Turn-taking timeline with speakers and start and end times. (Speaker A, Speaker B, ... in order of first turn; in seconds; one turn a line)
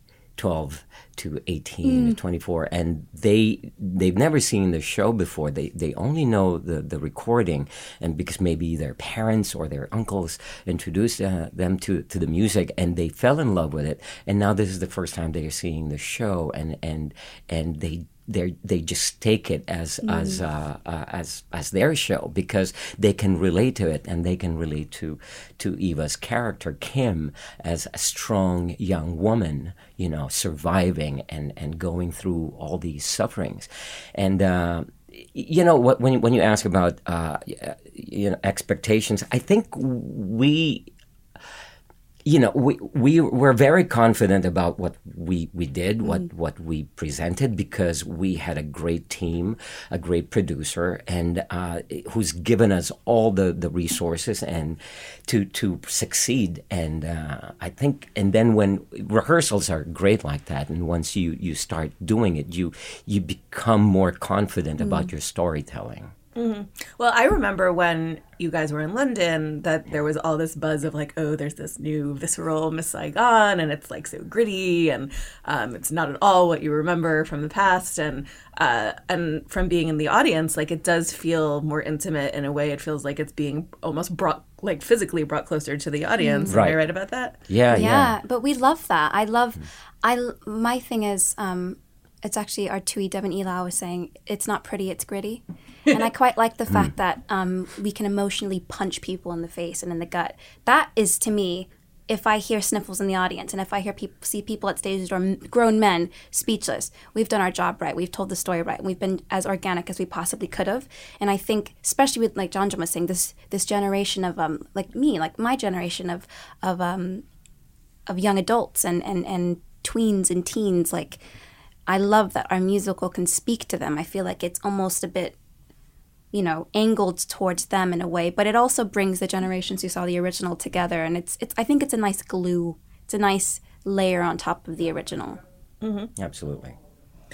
Speaker A: 0.4-40.9
Speaker B: 1.8-2.2
Speaker B: 20.0-20.4
Speaker A: 42.2-66.1
Speaker B: 64.8-65.1
Speaker C: 66.3-87.4
Speaker B: 86.2-86.5
Speaker A: 86.5-86.8
Speaker A: 87.5-88.2
Speaker B: 87.7-117.2
Speaker B: 118.1-121.2
Speaker B: 121.9-125.3
Speaker B: 126.3-135.4
Speaker C: 135.8-136.1
Speaker A: 136.2-136.8